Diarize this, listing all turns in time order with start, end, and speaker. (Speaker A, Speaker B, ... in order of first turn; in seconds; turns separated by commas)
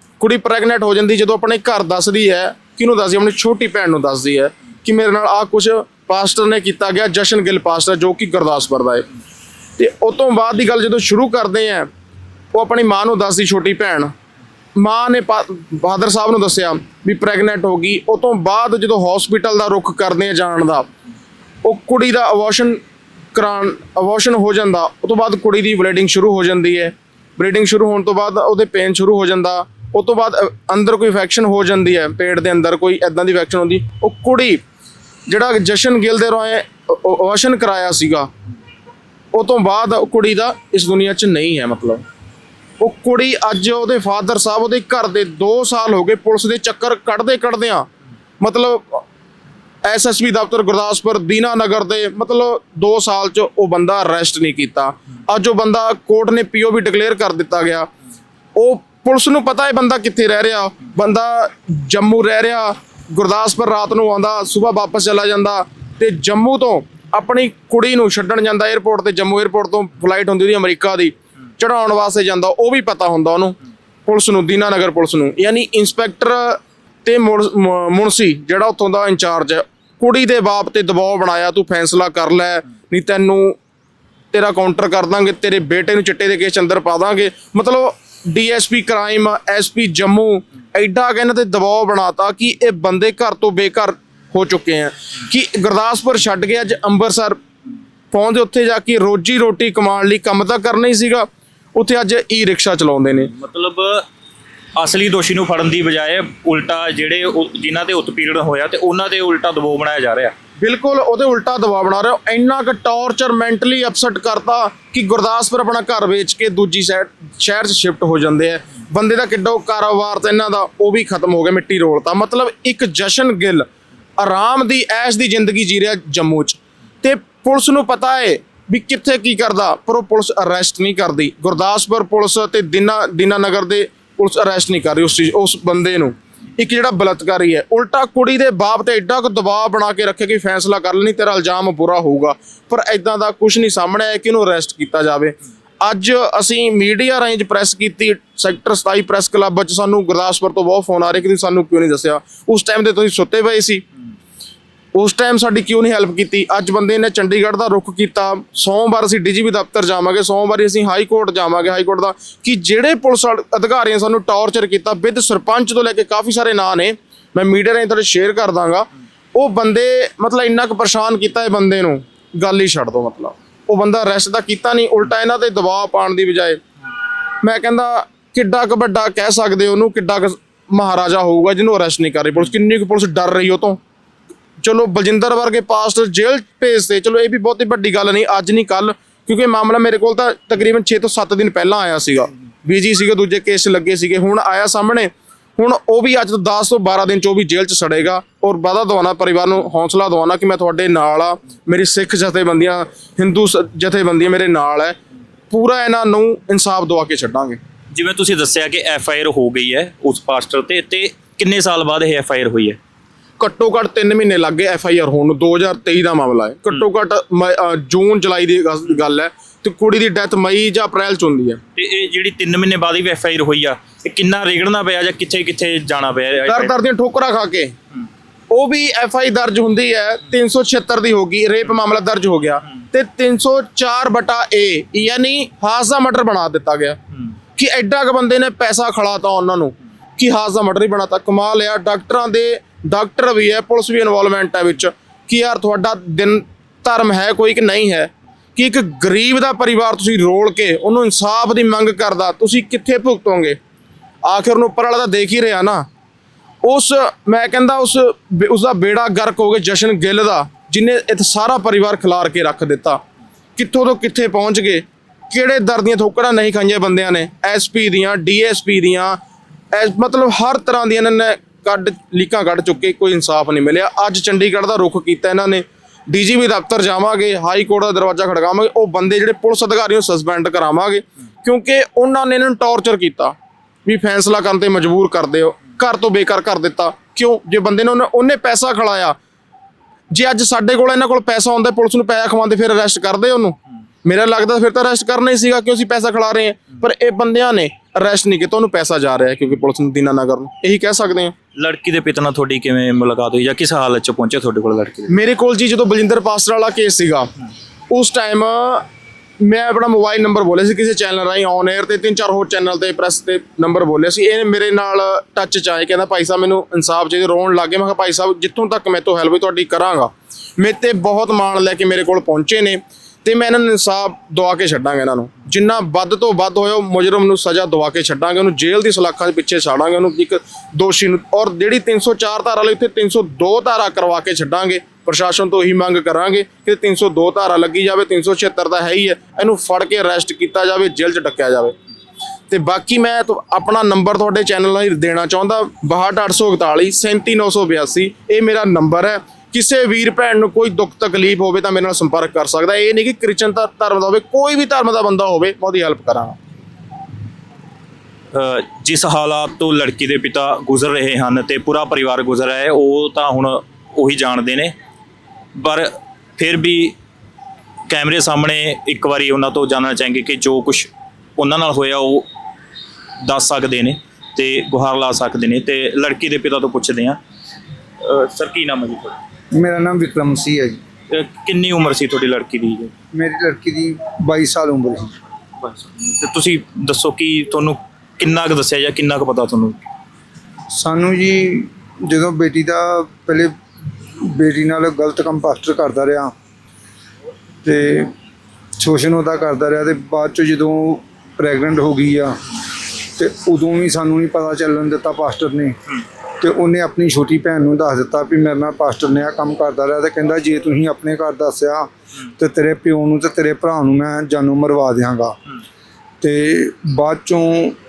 Speaker A: 0.2-9.1, Speaker A: 9.8-11.9, Speaker A: 12.5-14.1, Speaker A: 14.8-20.9, Speaker A: 21.6-22.8, Speaker A: 23.3-34.6, Speaker A: 35.3-38.3, Speaker A: 39.3-42.0, Speaker A: 42.8-47.9, Speaker A: 48.4-49.0, Speaker A: 49.8-57.9, Speaker A: 58.5-83.6, Speaker A: 84.3-97.4, Speaker A: 98.1-103.3, Speaker B: 103.3-104.0, Speaker B: 104.8-110.3, Speaker A: 110.6-123.7, Speaker A: 124.2-153.8, Speaker A: 154.9-176.6, Speaker A: 177.4-183.8, Speaker A: 184.6-205.0, Speaker A: 205.5-207.6, Speaker B: 207.9-212.8, Speaker A: 213.4-221.6, Speaker B: 221.8-226.7, Speaker A: 226.4-227.7, Speaker A: 228.5-237.0, Speaker A: 237.6-253.6, Speaker A: 254.2-255.8, Speaker A: 256.6-263.0, Speaker A: 263.6-269.2, Speaker A: 269.7-289.1, Speaker A: 290.1-301.3, Speaker B: 301.5-305.1, Speaker A: 305.1-307.3, Speaker A: 307.9-308.9, Speaker A: 309.4-341.7, Speaker A: 342.5-356.4, Speaker B: 358.3-364.7, Speaker B: 365.6-366.9, Speaker B: 367.9-372.3, Speaker B: 373.2-377.2, Speaker B: 378.0-379.1, Speaker C: 379.5-380.8, Speaker B: 381.1-382.9, Speaker C: 383.1-385.1, Speaker B: 385.6-389.8, Speaker C: 390.7-393.5, Speaker C: 394.2-396.3, Speaker C: 397.6-398.1, Speaker C: 398.8-402.4, Speaker C: 403.1-405.8, Speaker C: 406.4-415.4, Speaker C: 416.2-417.8